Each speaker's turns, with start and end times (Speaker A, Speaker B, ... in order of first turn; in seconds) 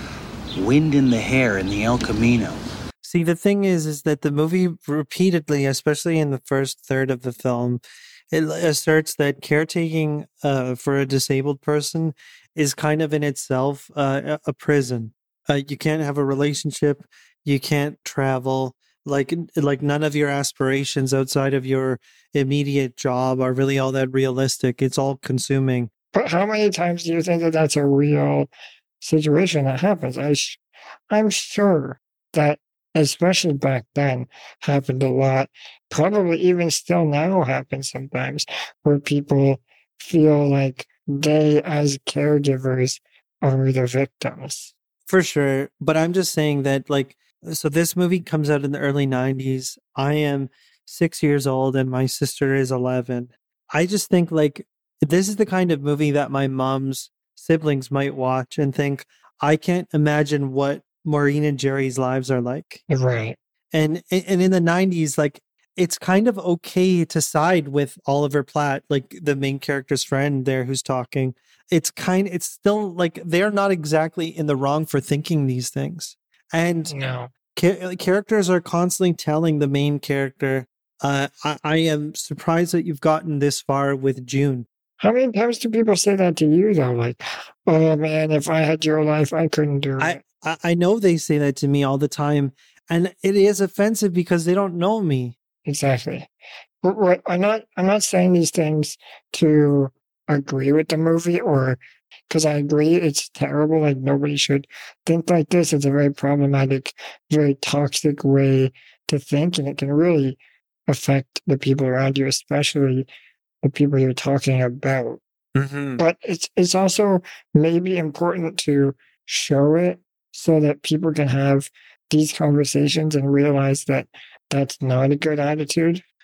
Speaker A: 0.5-2.6
Speaker B: 3.0-25.9, 45.1-62.8, 63.7-76.9, 77.5-84.7, 90.0-95.3, 115.5-116.0
Speaker C: 26.1-28.5, 29.0-44.7, 62.9-63.4, 76.9-77.3, 85.0-90.2, 95.7-96.3, 96.8-101.8, 102.3-113.1, 113.6-115.2, 116.0-126.0